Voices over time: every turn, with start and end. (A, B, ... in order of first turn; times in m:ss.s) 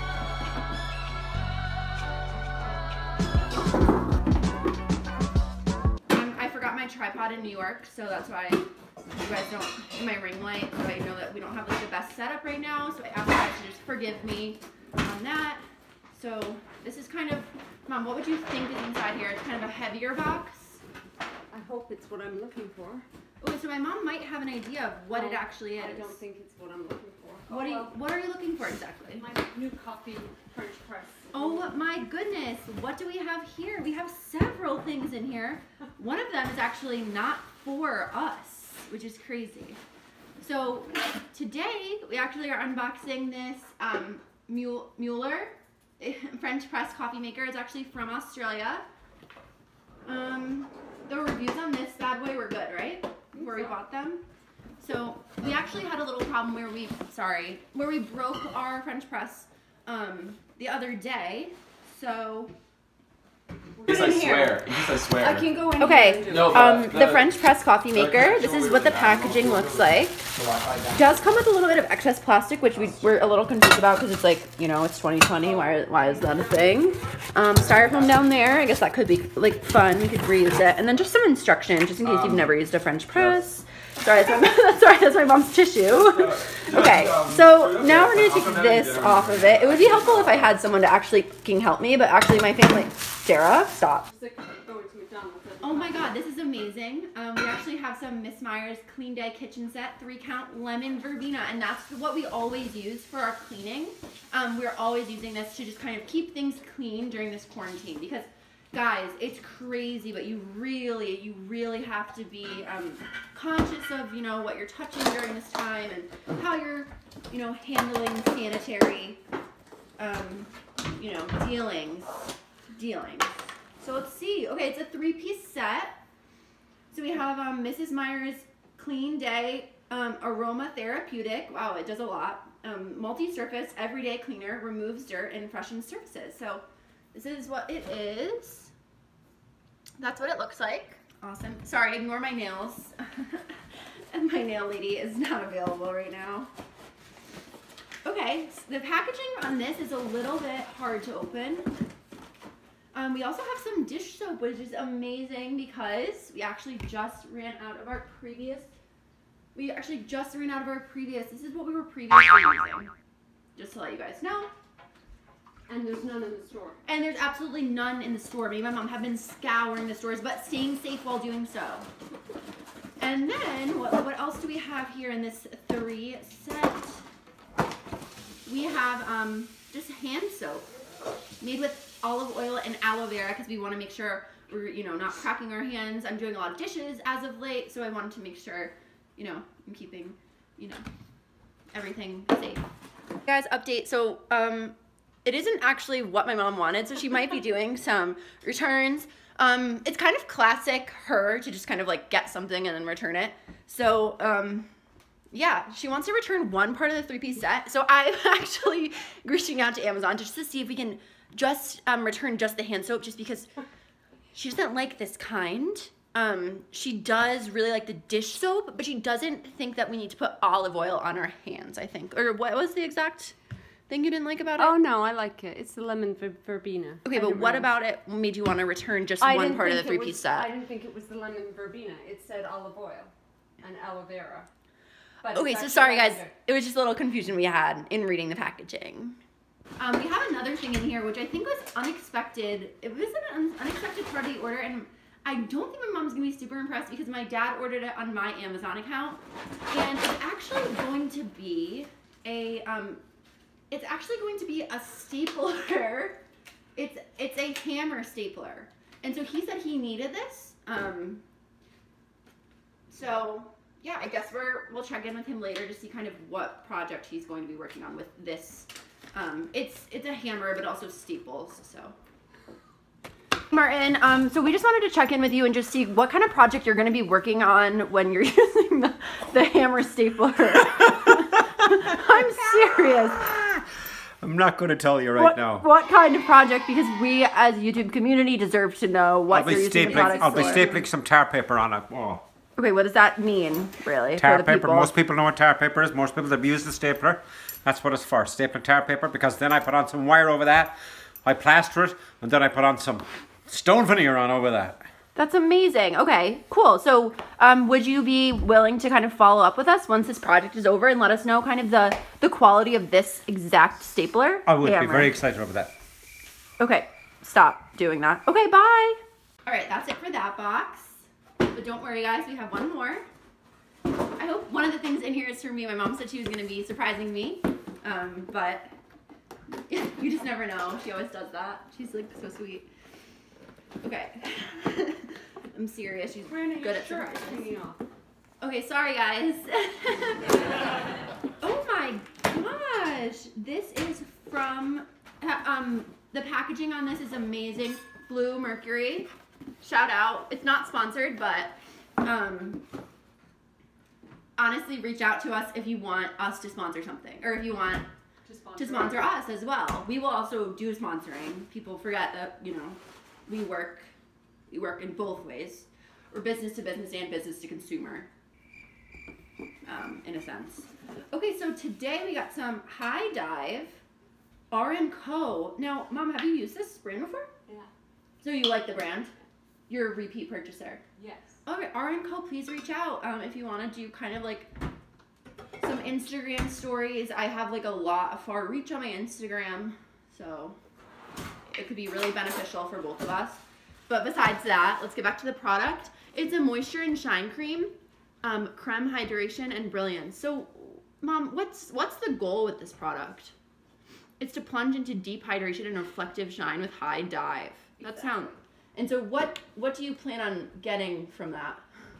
0:06.1-0:15.6 A
0:16.1-0:20.8 A
0:21.5-0:23.0 B
0:23.4-0:26.2 A
0:25.1-0:27.9 B
0:27.5-0:29.2 A
0:29.1-0:31.7 B
0:31.3-0:39.8 A
0:40.4-0:48.8 A
0:50.0-0:54.2 A
0:53.3-0:53.8 B
0:54.8-1:02.5 A
1:03.8-1:04.3 B
1:03.8-1:04.6 A
1:03.9-1:05.5 C
1:05.2-1:06.8 B
1:05.8-1:10.2 A
1:06.2-1:07.3 C
1:07.9-1:11.2 C
1:10.9-1:34.1 A
1:15.6-1:16.4 B
1:17.7-1:18.1 C
1:22.0-1:22.5 C
1:23.1-1:23.4 C
1:25.9-1:30.6 C
1:34.0-1:36.1 B
1:35.6-1:59.2 A
2:00.0-2:06.0 A
2:06.9-2:18.7 A
2:20.0-2:23.6 A
2:24.1-2:26.5 A
2:28.0-2:31.7 A
2:32.9-2:38.7 A
2:39.5-2:42.9 A
2:43.6-2:44.5 A
2:45.7-2:46.8 B
2:46.8-2:51.9 A
2:53.0-2:57.0 A
2:58.4-3:00.6 A
3:01.4-3:10.8 A
3:11.7-3:12.6 A
3:13.2-3:24.7 A
3:25.3-3:33.5 A
3:34.3-3:43.3 A
3:43.9-3:44.8 A
3:44.6-3:47.7 B
3:47.0-3:50.5 A
3:49.2-3:54.5 B
3:55.2-3:56.3 B
3:55.3-3:59.2 A
3:59.8-4:13.0 A
4:13.7-4:16.2 A
4:16.8-4:21.2 A
4:22.9-4:31.9 A
4:33.5-4:43.4 A
4:43.3-4:43.6 D
4:44.2-4:45.6 D
4:45.2-4:50.8 A
4:49.3-4:52.2 D
4:49.9-4:50.7 B
4:52.6-4:54.9 A
4:54.2-5:04.8 D
5:05.1-5:15.1 A
5:14.4-5:15.7 D
5:16.6-5:23.0 A
5:24.2-5:28.7 A
5:29.7-5:32.7 A
5:33.8-5:37.5 A
5:36.3-5:37.8 B
5:38.4-5:40.6 A
5:41.4-5:49.1 A
5:49.6-5:52.6 A
5:54.4-5:57.8 A
5:58.2-5:59.1 B
5:58.6-6:03.9 A
6:04.5-6:08.1 A
6:09.6-6:13.8 A
6:14.5-6:17.3 A
6:18.2-6:19.1 A
6:19.7-6:20.8 A
6:21.0-6:21.4 B
6:21.4-6:24.5 A
6:25.6-6:30.6 A
6:31.5-6:43.3 A
6:44.2-6:51.6 A